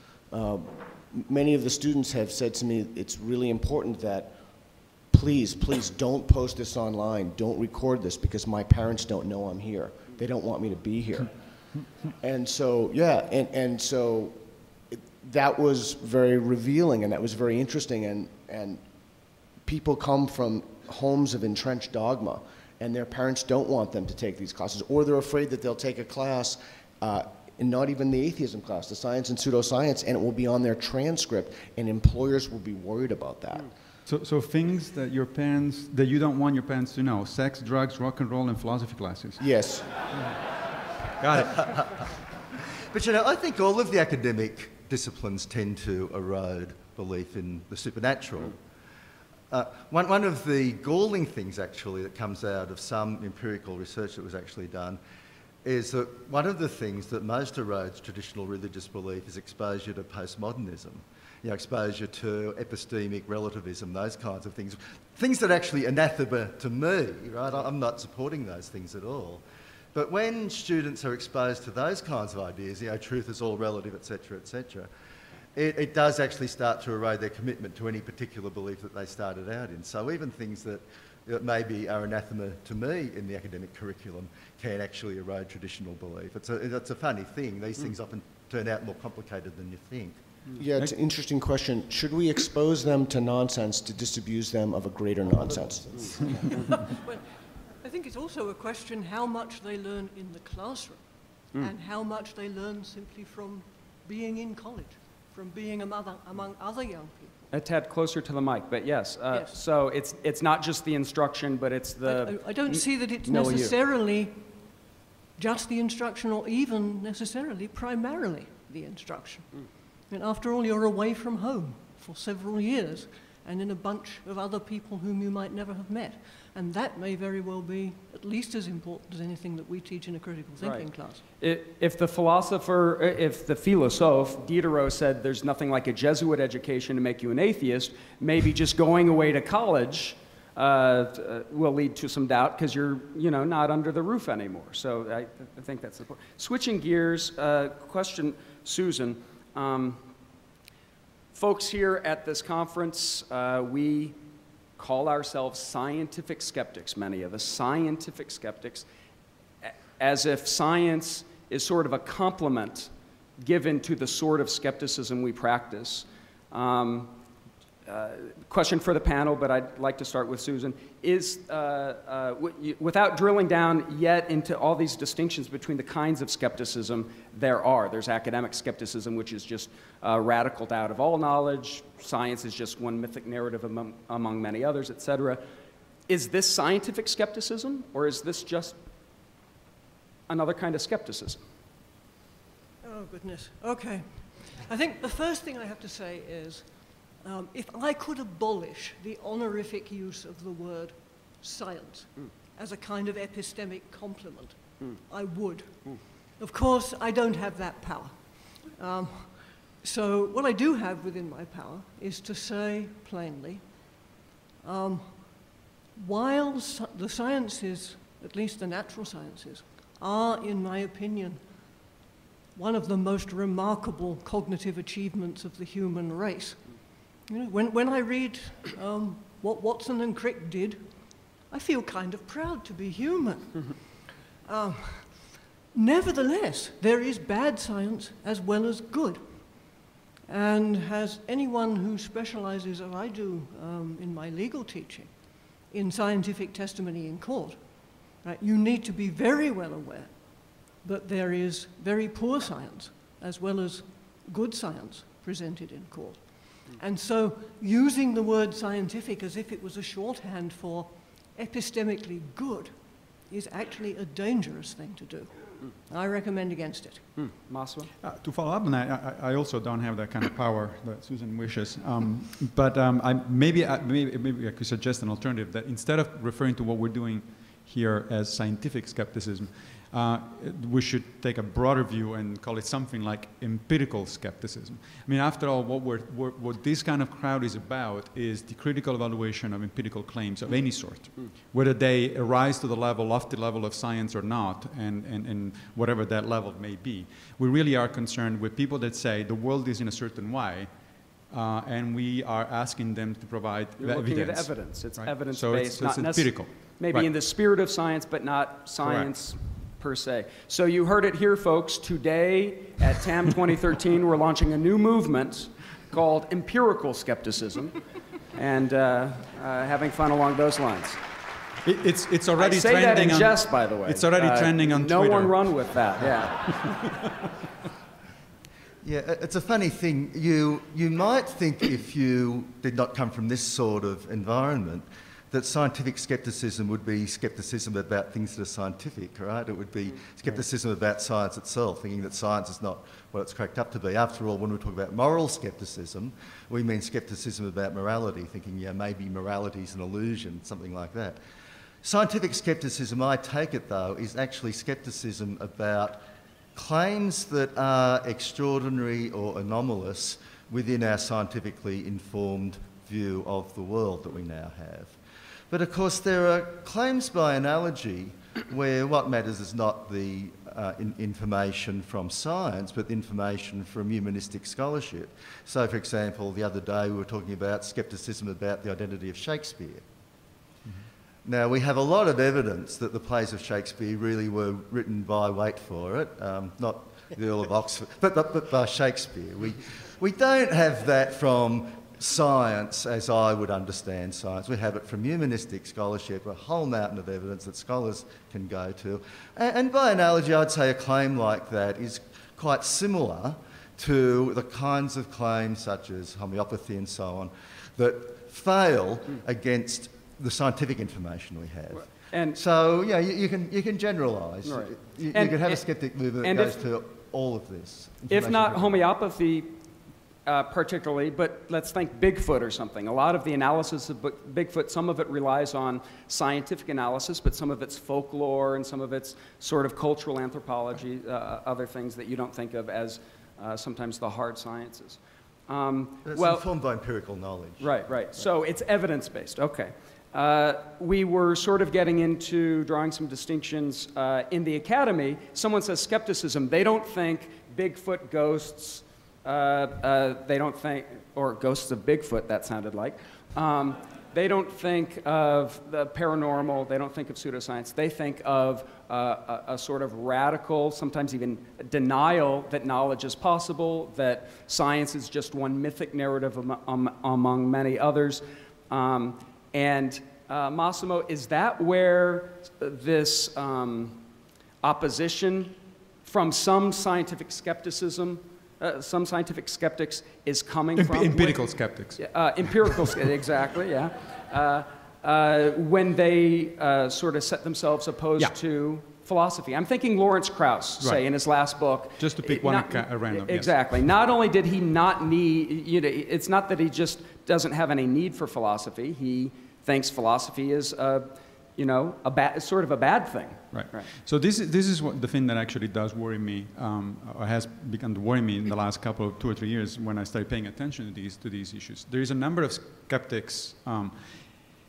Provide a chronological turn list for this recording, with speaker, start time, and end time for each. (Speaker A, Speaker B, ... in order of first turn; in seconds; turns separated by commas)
Speaker A: 0.3-4.3, Speaker A: 5.1-11.3, Speaker A: 12.1-14.4, Speaker A: 14.9-18.8, Speaker A: 19.6-33.7, Speaker B: 34.1-39.4, Speaker A: 39.4-39.9, Speaker B: 41.2-41.7, Speaker C: 41.3-42.1, Speaker C: 42.8-48.6, Speaker C: 49.5-55.0, Speaker C: 55.6-69.4, Speaker C: 69.9-74.9, Speaker C: 75.5-90.2, Speaker A: 90.5-96.5, Speaker D: 96.4-97.2, Speaker D: 97.8-107.4, Speaker E: 107.5-113.7, Speaker D: 112.0-114.5, Speaker D: 115.3-119.5, Speaker D: 120.1-131.2, Speaker E: 130.6-150.0, Speaker E: 151.3-154.2, Speaker E: 154.8-158.8, Speaker E: 159.6-167.1, Speaker E: 167.8-185.4, Speaker E: 186.1-188.8, Speaker E: 190.3-191.4, Speaker D: 192.8-214.1, Speaker D: 214.6-221.4, Speaker D: 222.5-267.2, Speaker E: 267.2-267.9, Speaker B: 268.0-300.7, Speaker B: 301.3-307.1, Speaker E: 303.8-317.8, Speaker B: 308.8-309.1, Speaker E: 318.3-321.0, Speaker B: 321.6-326.0, Speaker E: 322.4-326.9, Speaker C: 328.8-351.2, Speaker C: 351.8-356.0, Speaker C: 356.5-364.9, Speaker C: 365.5-379.8, Speaker C: 381.2-418.8, Speaker E: 411.8-412.4, Speaker E: 414.4-415.6, Speaker E: 416.2-416.6, Speaker E: 418.1-419.6, Speaker E: 420.2-436.4, Speaker C: 436.0-437.7, Speaker E: 437.6-474.0, Speaker E: 474.6-503.9, Speaker B: 480.8-482.8, Speaker B: 492.0-493.8, Speaker B: 503.5-514.5